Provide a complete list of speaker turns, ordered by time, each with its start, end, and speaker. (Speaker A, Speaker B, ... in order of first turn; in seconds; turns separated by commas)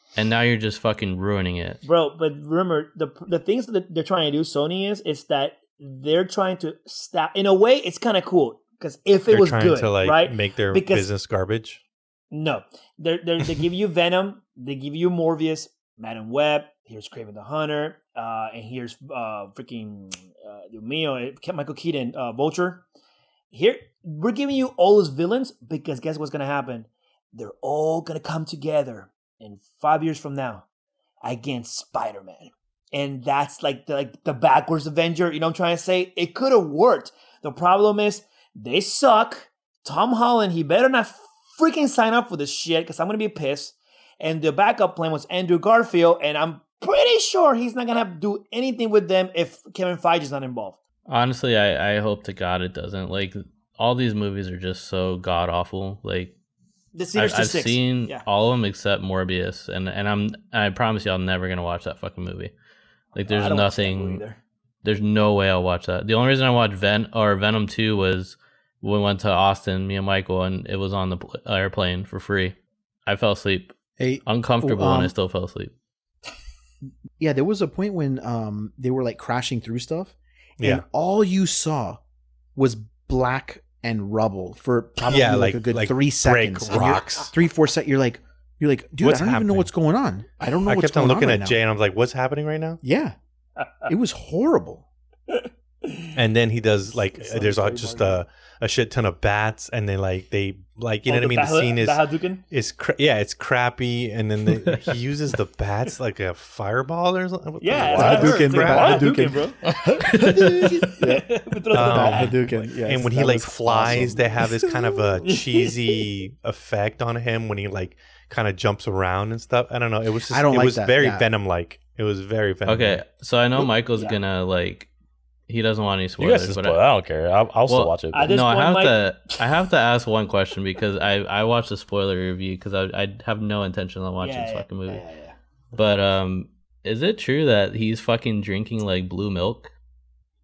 Speaker A: 0.1-1.8, Speaker B: 1.8-11.1, Speaker C: 9.3-11.8, Speaker B: 12.3-22.8, Speaker B: 23.5-30.6, Speaker B: 31.2-50.8, Speaker A: 51.1-56.3, Speaker B: 56.9-58.2, Speaker A: 57.1-62.5, Speaker A: 63.1-64.2, Speaker B: 63.3-64.4, Speaker A: 64.8-73.7, Speaker D: 74.0-75.2, Speaker A: 74.2-75.7, Speaker D: 77.2-82.0, Speaker C: 80.6-80.8, Speaker D: 82.5-91.6, Speaker C: 85.0-87.3, Speaker C: 89.0-89.7, Speaker C: 90.6-92.8, Speaker D: 92.8-93.2, Speaker B: 93.6-93.9, Speaker D: 93.9-94.8, Speaker B: 95.3-96.1, Speaker C: 96.2-109.0, Speaker D: 97.2-98.2, Speaker B: 101.0-102.4, Speaker B: 107.6-109.6, Speaker D: 107.8-109.5, Speaker A: 110.1-110.9, Speaker B: 110.3-112.7, Speaker D: 111.0-114.3, Speaker C: 111.7-123.0, Speaker B: 115.2-115.8, Speaker D: 120.3-121.2, Speaker A: 122.7-124.9, Speaker A: 125.5-126.8, Speaker E: 126.2-128.3, Speaker A: 127.7-135.0, Speaker B: 128.1-129.2, Speaker B: 134.2-135.3, Speaker A: 135.7-139.7